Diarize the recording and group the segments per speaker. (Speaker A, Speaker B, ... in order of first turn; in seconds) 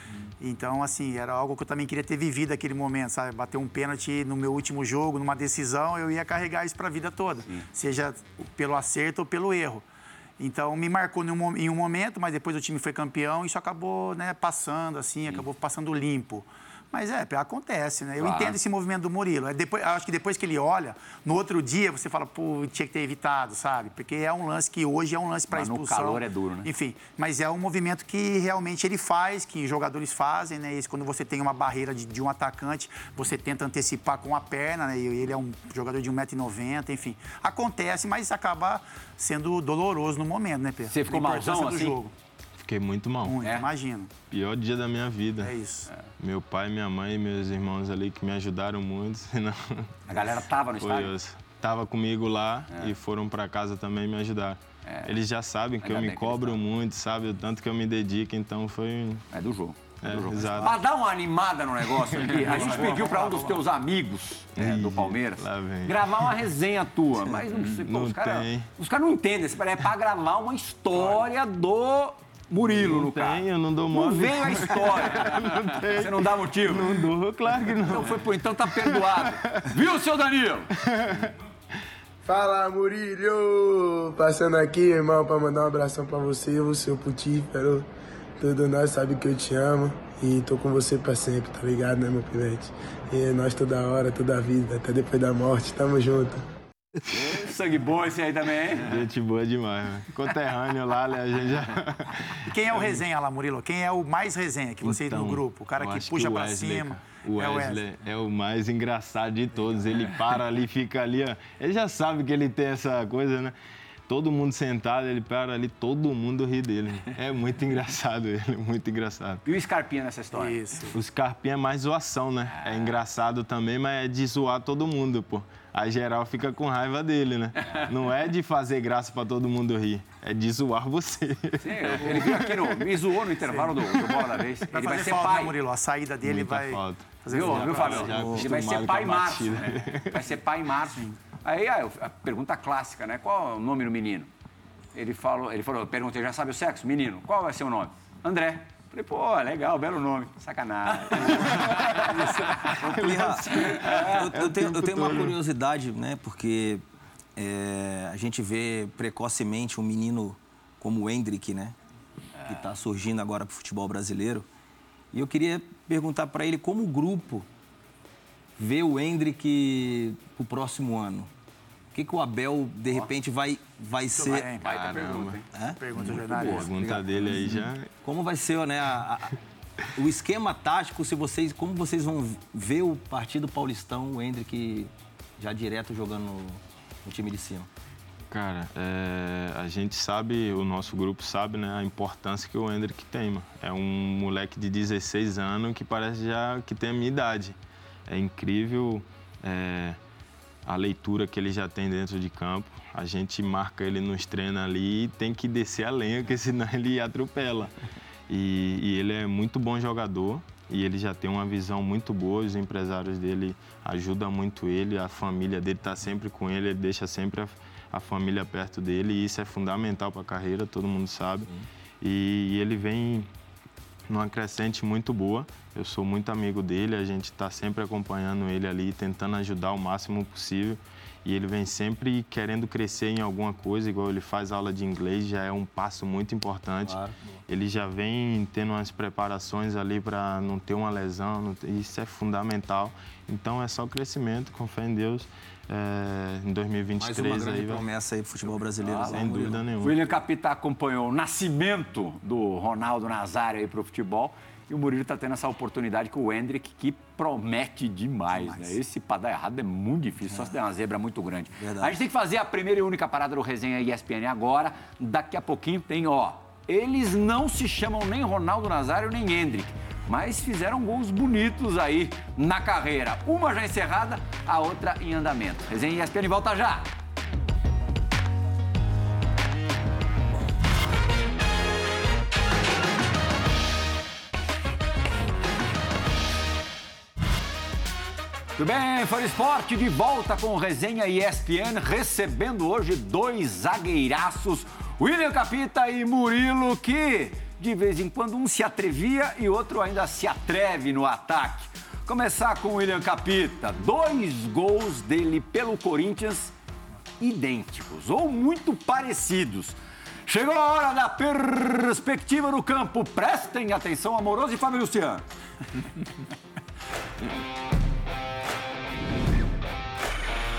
Speaker A: 0.4-9.8, 10.4-42.1, 43.2-44.1, 45.4-45.9, 62.2-63.6, 102.4-107.8, 120.3-121.0, 133.4-133.8, 134.7-138.2, 174.1-174.6, 175.8-176.7, 258.4-258.8
Speaker B: 18.2-18.6, 25.5-26.7, 40.9-42.0, 50.1-51.1, 54.9-55.2, 55.8-56.6, 59.3-77.0, 77.8-80.7, 97.1-99.0, 119.5-120.8, 122.5-123.0, 131.6-135.6, 137.3-144.3, 144.9-152.7, 153.4-154.3, 174.6-175.5, 176.1-176.7, 248.8-276.9, 288.6-306.5, 307.2-315.2
Speaker C: 42.6-43.5, 44.3-45.5, 46.2-50.3, 50.8-59.3, 60.0-60.8, 64.6-66.4, 67.8-68.7, 72.6-79.7, 80.8-81.3, 98.8-103.0, 104.8-113.5, 114.1-119.4, 120.9-132.9, 136.2-140.3, 151.3-155.4, 174.6-175.4, 176.0-177.9, 188.3-200.0, 200.7-207.7, 208.3-221.5, 222.0-223.3, 224.1-247.9, 249.1-250.0
Speaker D: 82.2-87.9, 88.4-96.4
Speaker E: 138.0-138.4, 152.8-156.8, 157.4-161.8, 162.5-164.5, 165.1-167.4, 168.6-171.3, 171.9-174.5, 175.5-176.0, 176.6-179.4, 180.0-187.7, 236.9-237.2, 247.0-249.6, 261.6-261.9